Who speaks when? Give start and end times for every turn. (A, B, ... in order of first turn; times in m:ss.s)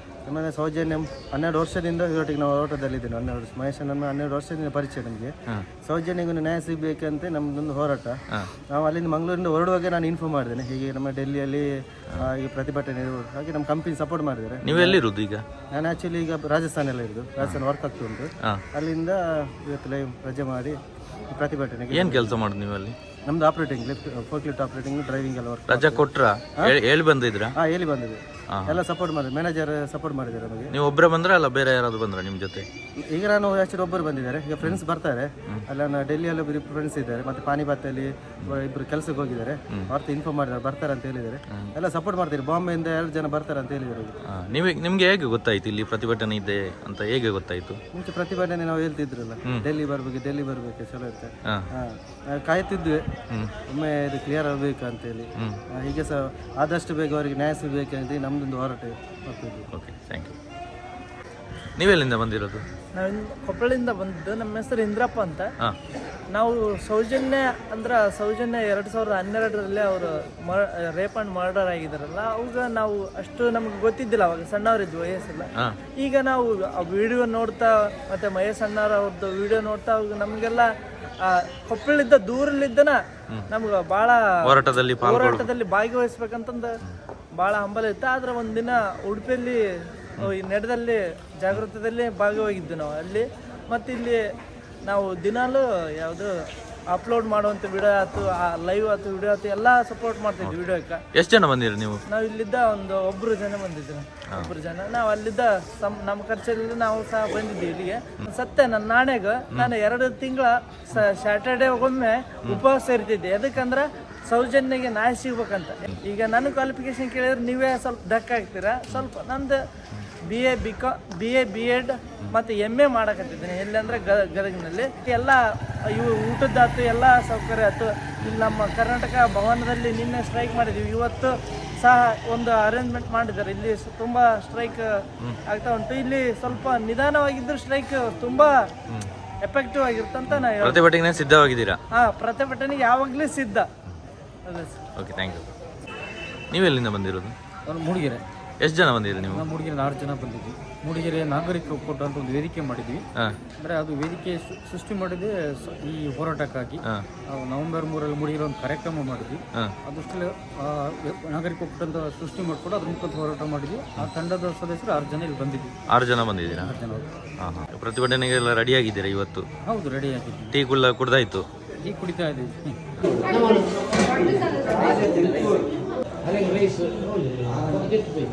0:00.3-0:05.3 A
0:05.8-0:08.2 A
0:08.7-0:15.0 A
0:14.6-0:15.4 B
0:15.7-0:20.8 A
0:21.3-0:22.4 A
0:21.9-0:23.0 B
0:23.3-0:26.1 A
0:25.7-0:27.5 B
0:27.6-0:30.7 A
0:28.5-0:28.8 B
0:30.7-0:32.6 B
0:33.1-0:44.2 A
0:44.3-0:47.8 B
0:48.0-0:53.0 A
0:53.7-0:59.7 A
0:59.7-1:00.4 B
1:01.8-1:02.6 B
1:03.0-1:05.5 C
1:06.3-1:15.5 C
1:16.0-1:20.7 C
1:21.2-1:23.0 C
1:23.5-1:24.2 C
1:24.4-1:25.5 B
1:25.0-1:26.8 C
1:27.4-1:29.6 C
1:30.2-1:34.2 C
1:34.9-1:36.3 C
1:36.9-1:41.0 C
1:41.1-1:42.0 B
1:42.1-1:59.6 C
2:00.3-2:05.4 C
2:05.9-2:14.9 C
2:15.5-2:18.5 C
2:19.4-2:20.8 C
2:20.3-2:21.8 B
2:22.0-2:23.7 C
2:24.5-2:24.7 C
2:25.0-2:25.5 B
2:26.5-2:27.3 B
2:27.7-2:28.2 D
2:28.6-2:29.5 B
2:29.3-2:33.0 D
2:33.6-2:45.7 D
2:45.9-2:46.7 B
2:46.6-2:47.1 D
2:47.4-2:49.5 B
2:49.7-2:50.6 D
2:50.5-2:51.5 B
2:51.8-2:53.6 D
2:54.7-2:55.6 D
2:56.3-2:56.7 D
2:57.4-2:57.8 D